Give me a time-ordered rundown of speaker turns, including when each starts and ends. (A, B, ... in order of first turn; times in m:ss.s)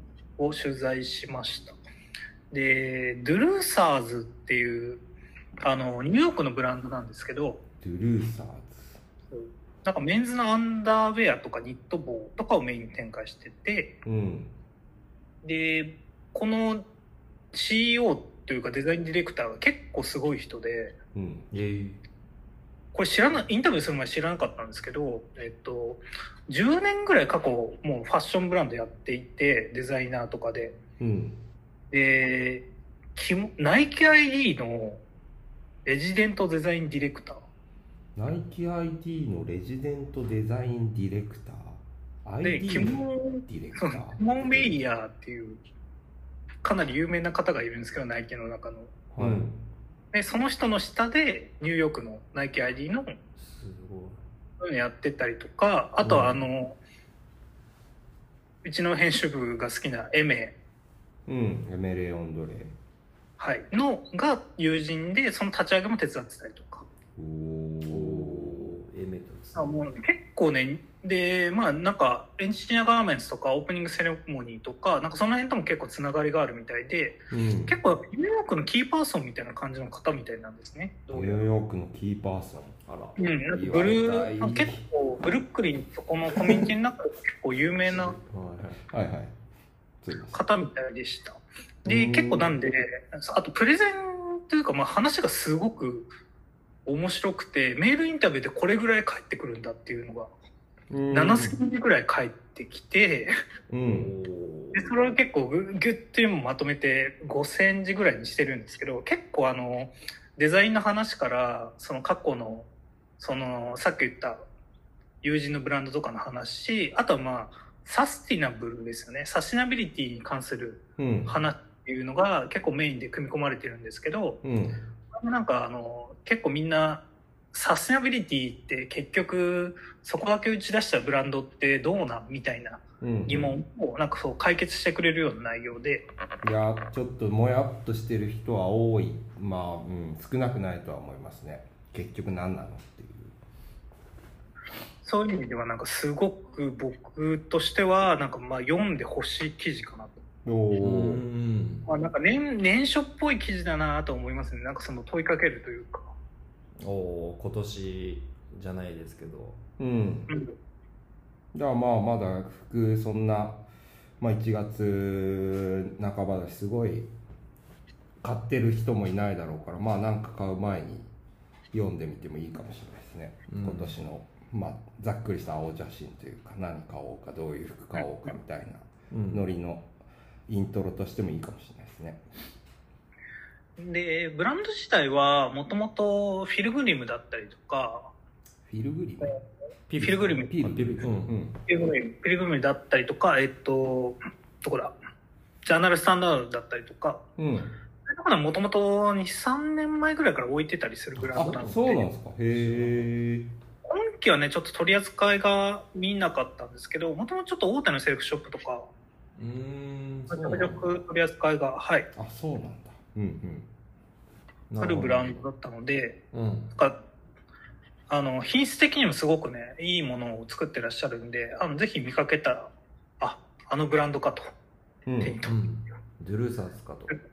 0:00.4-0:01.8 A
0:02.5-0:05.0 A
0:05.6-0:07.6 A
0:07.8-0:09.0 B
0:09.3-0:13.9 A
0:14.0-0:14.5 B
0:15.4-0:16.8 A
0:17.5-0:21.0 A
0:21.1-0:21.4 B
0:21.5-0:22.0 C
0:22.9-0:30.8 A
0:31.0-0:31.4 B
0:31.9-0:35.0 A
0:35.8-0:37.4 A
0:38.2-0:44.8 B
0:42.4-0:45.6 A
0:46.6-0:48.9 A
0:49.1-0:49.5 C
0:49.2-0:49.6 B
0:50.1-0:53.2 A
0:53.4-0:54.2 C
0:54.6-0:56.7 A
0:56.0-0:56.4 C
0:58.6-1:00.5 A
1:01.3-1:02.7 B
1:03.4-1:06.8 A
1:07.2-1:08.8 B
1:07.9-1:09.7 C
1:09.6-1:21.4 A
1:17.3-1:17.8 B
1:21.1-1:22.8 B
1:22.9-1:23.2 C
1:23.2-1:28.1 A
1:23.5-1:24.8 B
1:26.4-1:26.7 B
1:27.8-1:28.8 C
1:28.9-1:29.3 B
1:30.0-1:30.4 B
1:30.3-1:36.1 A
1:31.8-1:32.6 B
1:36.8-1:40.3 A
1:40.9-1:41.5 B
1:41.1-1:43.3 A
1:43.7-1:44.1 B
1:43.8-1:45.0 C
1:44.7-1:52.7 A
1:53.2-1:54.4 A
1:55.2-2:04.4 A
2:01.0-2:01.3 B
2:04.4-2:04.8 B
2:05.1-2:16.1 A
2:13.0-2:13.5 B
2:16.4-2:23.3 B
2:25.0-2:30.2 A
2:30.4-2:31.2 B
2:30.8-2:31.9 C
2:31.9-2:36.1 A
2:36.8-2:39.6 C
2:39.8-2:40.3 B
2:40.3-2:40.5 A
2:41.5-2:43.6 B
2:44.2-2:47.1 B
2:48.2-2:51.1 B
2:51.7-2:59.9 B
2:53.5-2:54.0 C
2:59.1-2:59.4 C
3:00.5-3:02.2 B
3:03.8-3:08.1 A
3:08.7-3:09.3 B
3:09.9-3:11.4 C
3:10.0-3:10.5 A
3:10.0-3:11.6 B
3:11.7-3:14.9 A
3:15.6-3:17.2 A
3:17.4-3:17.7 B
3:18.1-3:22.0 A
3:21.2-3:23.5 B
3:22.5-3:23.1 C
3:23.8-3:28.9 A
3:29.4-3:30.9 C
3:30.3-3:32.1 A
3:32.2-3:33.7 B
3:34.7-3:35.5 C
3:34.8-3:36.2 A
3:36.3-3:36.7 C
3:38.1-3:44.5 A
3:45.0-3:45.4 B
3:45.2-3:45.6 A
3:45.4-3:47.2 C